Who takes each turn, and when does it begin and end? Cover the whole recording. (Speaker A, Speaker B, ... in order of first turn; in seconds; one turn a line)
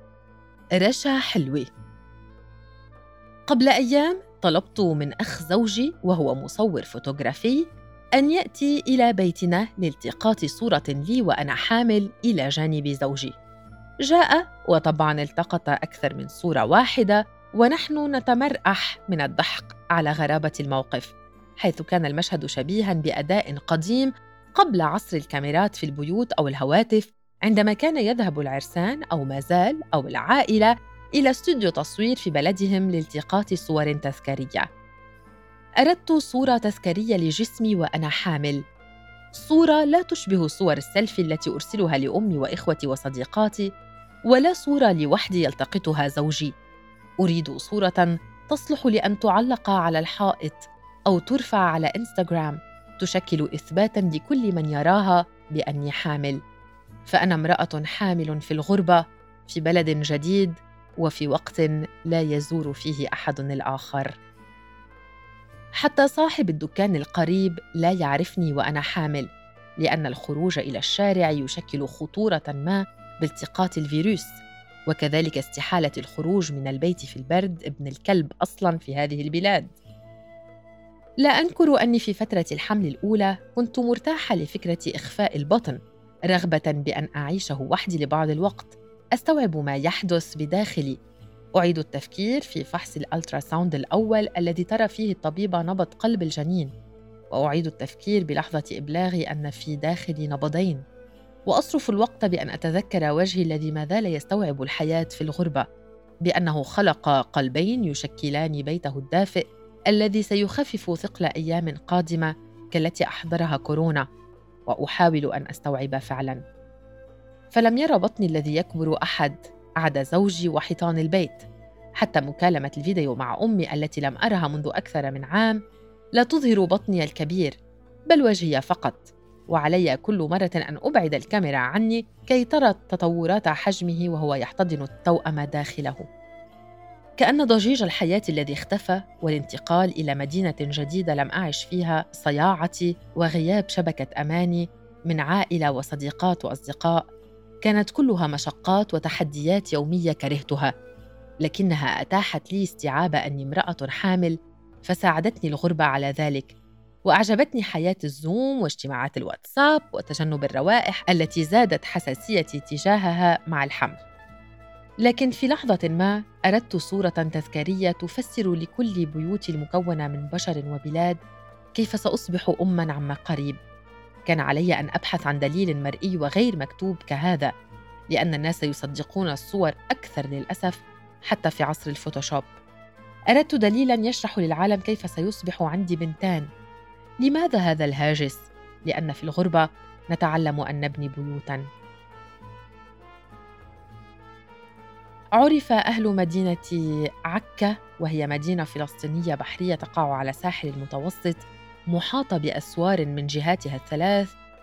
Speaker A: 0.8-1.7
Speaker A: 3.5-13.3
Speaker A: 14.1-34.7
Speaker A: 35.8-38.6
Speaker A: 39.3-43.7
Speaker A: 44.3-46.5
Speaker A: 47.2-56.4
Speaker A: 57.1-64.2
Speaker A: 65.8-69.3
Speaker A: 69.8-79.7
Speaker A: 81.2-85.8
Speaker A: 86.3-91.0
Speaker A: 91.6-96.7
Speaker A: 97.3-100.8
Speaker A: 101.5-105.7
Speaker A: 106.3-114.0
Speaker A: 114.7-116.4
Speaker A: 117.5-121.5
Speaker A: 122.0-125.6
Speaker A: 126.2-127.6
Speaker A: 128.1-136.1
Speaker A: 137.2-147.0
Speaker A: 147.7-150.7
Speaker A: 151.4-154.3
Speaker A: 154.8-156.6
Speaker A: 157.1-164.0
Speaker A: 165.1-171.2
Speaker A: 171.8-173.6
Speaker A: 174.3-177.5
Speaker A: 178.1-182.5
Speaker A: 183.3-186.5
Speaker A: 187.2-191.7
Speaker A: 195.4-204.3